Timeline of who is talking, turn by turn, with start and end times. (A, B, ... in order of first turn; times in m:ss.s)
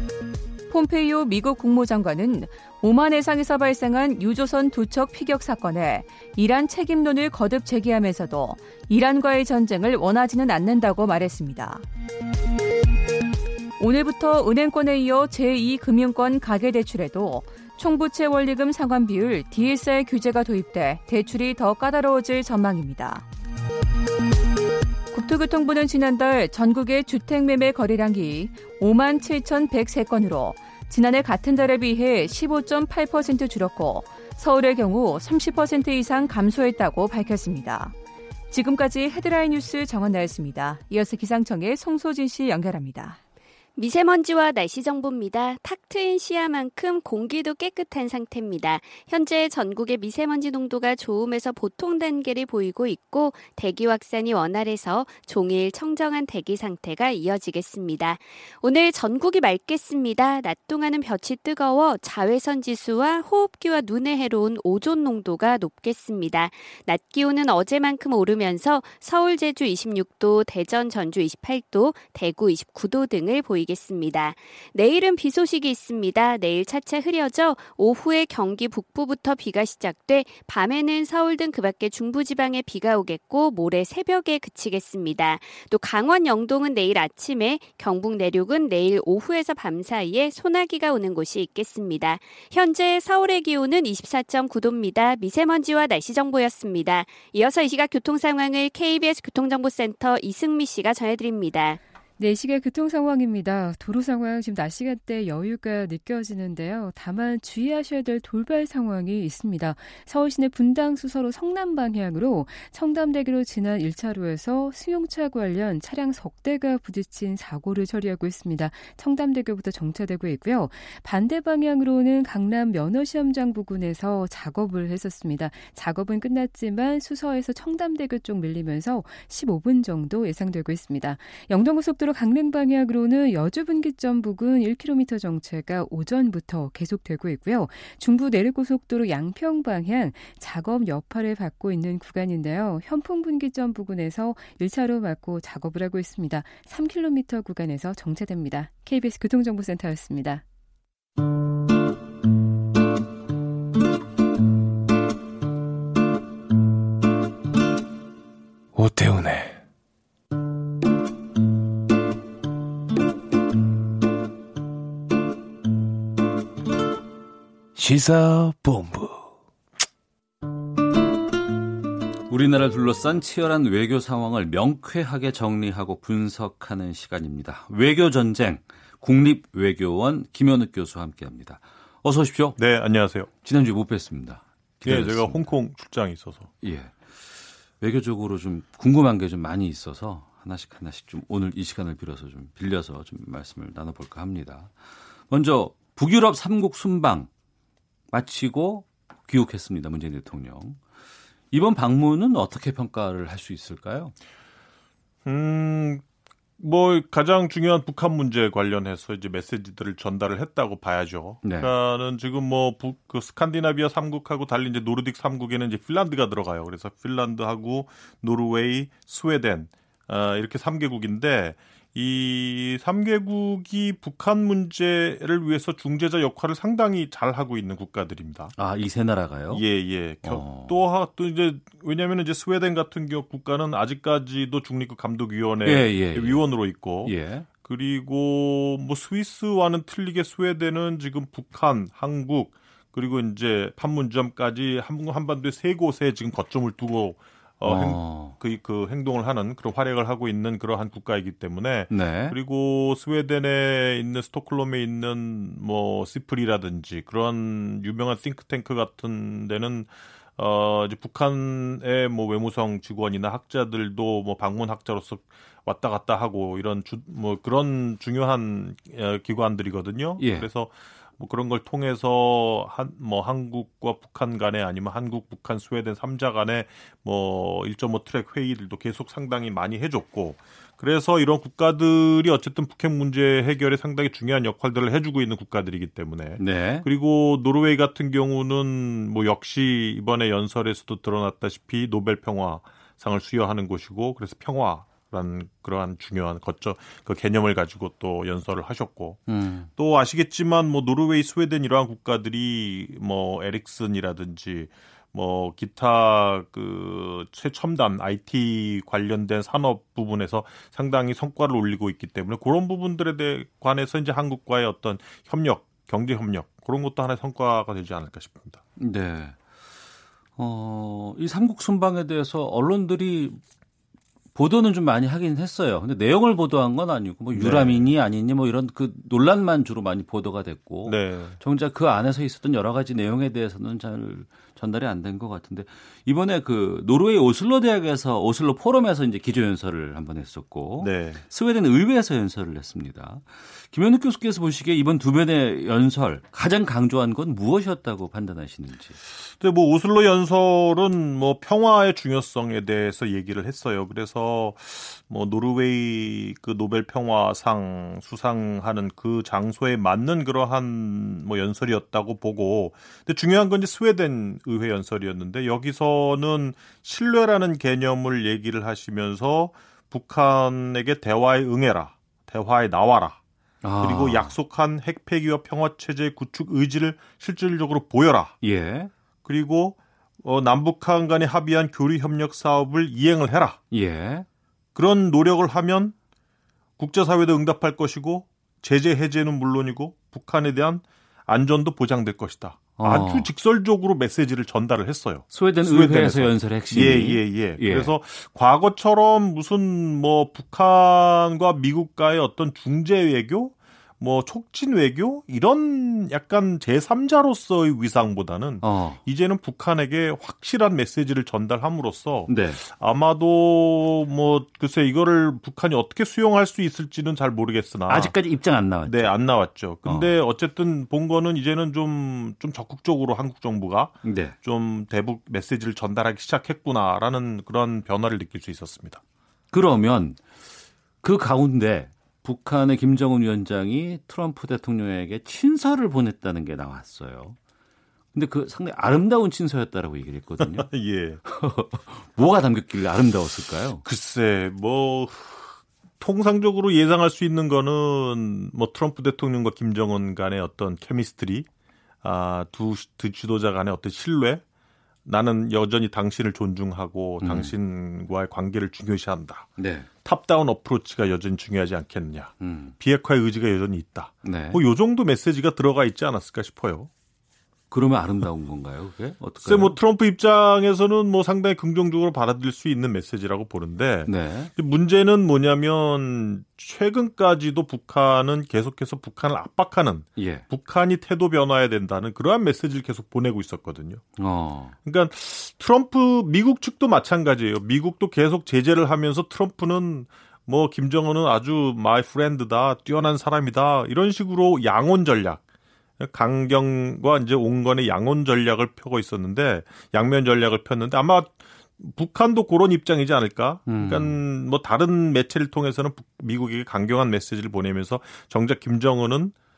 0:00.7-0:11.8 A
0:13.8-0:23.2 A
0:25.1-0:37.9 A
0:38.5-0:43.2 A
0:43.8-1:41.8 B
1:42.2-2:30.4 C
2:38.7-2:39.6 D
2:47.7-2:49.3 D
2:52.3-3:02.6 E
3:02.6-3:03.3 F
3:03.4-3:05.5 E
3:04.8-3:06.5 F
3:06.6-3:07.0 E
3:07.8-3:14.7 E
3:15.3-3:17.3 E
3:18.1-3:20.8 E
3:21.5-3:24.1 E
3:25.2-3:26.0 F
3:26.6-3:48.5 F
3:31.4-3:31.7 E
3:48.6-3:49.6 E
3:49.5-4:59.2 F
3:50.2-3:50.7 E
3:55.6-3:56.4 E
3:57.0-3:57.5 E
4:07.6-4:08.3 E
4:11.9-4:12.4 E
4:30.2-4:30.5 E
4:46.4-4:46.8 E
4:59.3-4:59.7 E
4:59.8-5:18.6 F
5:18.8-5:19.4 E
5:20.4-5:23.4 E
5:24.3-5:49.0 E
5:27.3-5:27.9 F
5:30.8-5:31.4 F
5:40.8-5:41.2 F
5:49.2-6:13.2 F
6:13.6-6:14.3 E
6:13.8-6:18.3 F
6:18.4-6:18.9 E
6:19.2-6:23.6 F
6:23.7-6:24.3 E
6:24.7-6:25.9 F
6:26.8-6:58.1 F
6:32.8-6:33.3 E
6:35.3-6:37.9 E
6:48.6-6:49.0 E
6:52.3-6:52.6 E
6:57.9-6:59.1 E
6:58.8-7:09.0 F
6:59.8-7:00.1 E
7:04.0-7:04.3 E
7:09.5-7:10.2 E
7:11.0-7:17.4 E
7:18.1-7:20.7 E
7:20.4-7:21.2 F
7:21.2-7:23.8 E
7:23.8-7:31.5 F
7:32.0-7:34.4 F
7:35.0-7:39.5 F
7:37.2-7:37.5 E
7:39.6-7:39.9 E
7:40.0-7:46.9 F
7:42.4-7:42.7 E
7:44.2-7:44.6 E
7:47.7-7:49.8 E
7:49.4-8:04.0 F
7:54.0-7:54.5 E
8:00.2-8:00.4 E
8:04.2-8:04.7 E
8:04.8-8:15.4 F
8:16.0-8:29.3 F
8:23.7-8:24.2 E